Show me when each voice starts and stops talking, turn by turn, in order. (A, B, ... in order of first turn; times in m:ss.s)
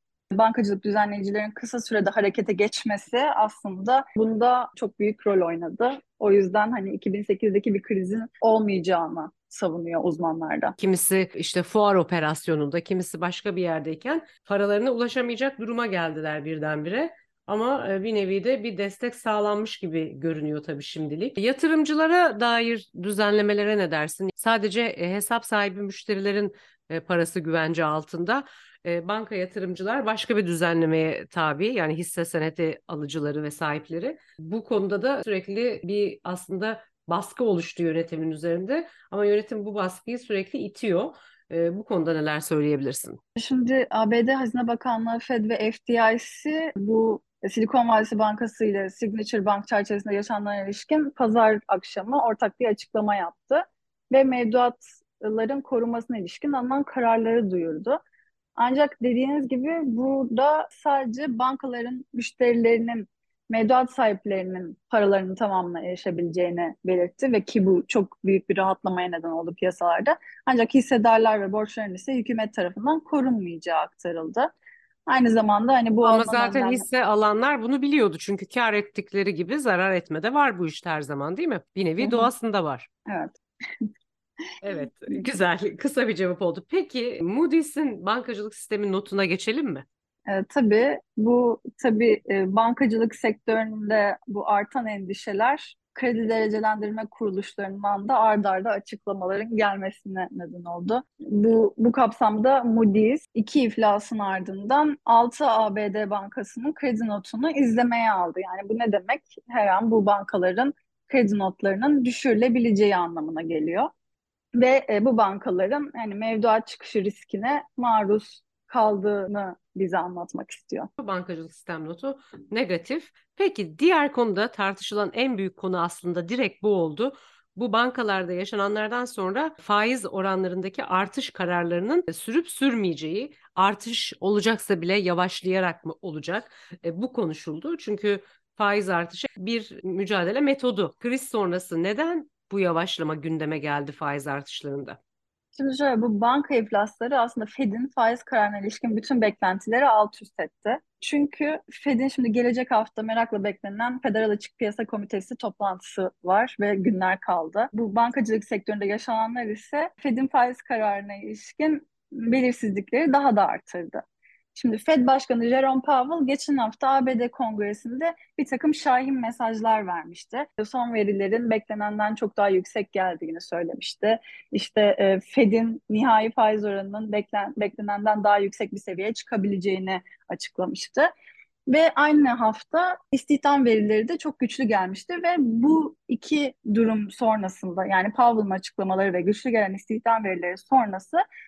0:00.3-0:10.8 A
0:10.8-0:43.2 B
0:43.4-0:58.0 A
0:58.6-1:14.5 A
1:15.1-1:16.8 A
1:16.0-1:22.9 B
1:22.0-1:22.3 A
1:23.1-1:23.8 A
1:24.6-1:29.8 B
1:30.3-1:53.9 A
1:54.6-2:00.9 A
2:01.0-2:25.0 B
2:25.6-2:44.0 A
2:44.6-3:01.1 A
3:01.7-3:11.2 A